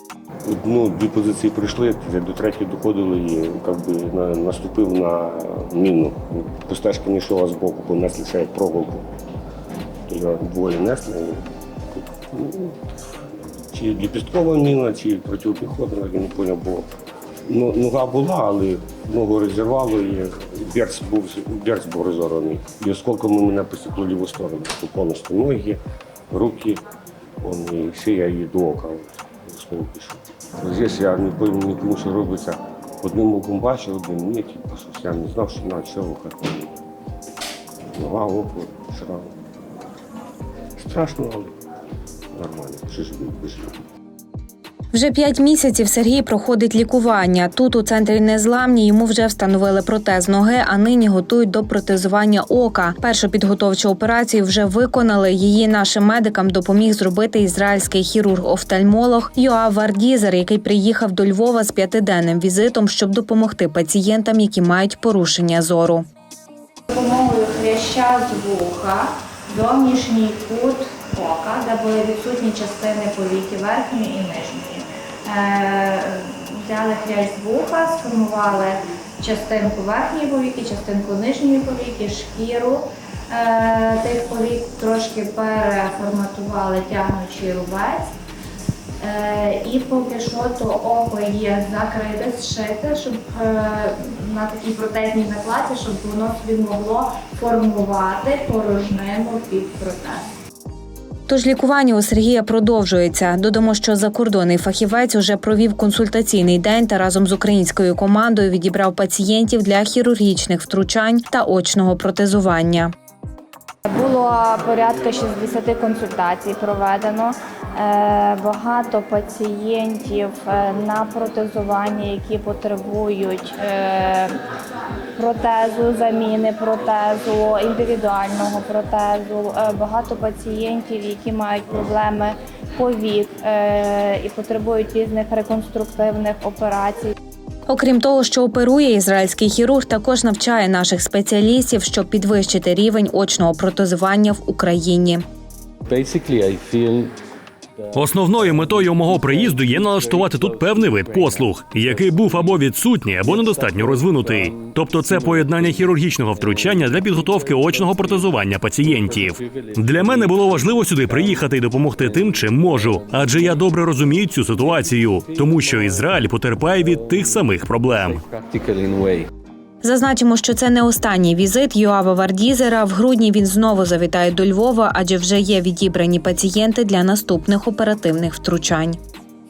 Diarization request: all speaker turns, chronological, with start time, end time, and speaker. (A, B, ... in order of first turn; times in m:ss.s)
0:00.4-0:09.1 A
0:10.1-0:12.8 A
0:13.7-0:16.9 A
0:17.4-0:26.8 A
0:27.4-0:36.8 A
0:37.9-0:39.3 A
0:40.8-0:41.5 A
0:42.3-0:43.8 A
0:44.9-1:06.0 B
1:06.9-1:28.1 C
1:29.0-1:40.2 C
1:41.3-1:52.9 B
1:53.9-2:04.4 C
2:05.2-2:17.1 C
2:17.7-2:25.2 B
2:25.9-2:27.1 D
2:27.8-2:32.6 D
2:27.9-2:48.2 E
2:33.2-2:49.3 D
2:49.8-2:59.0 B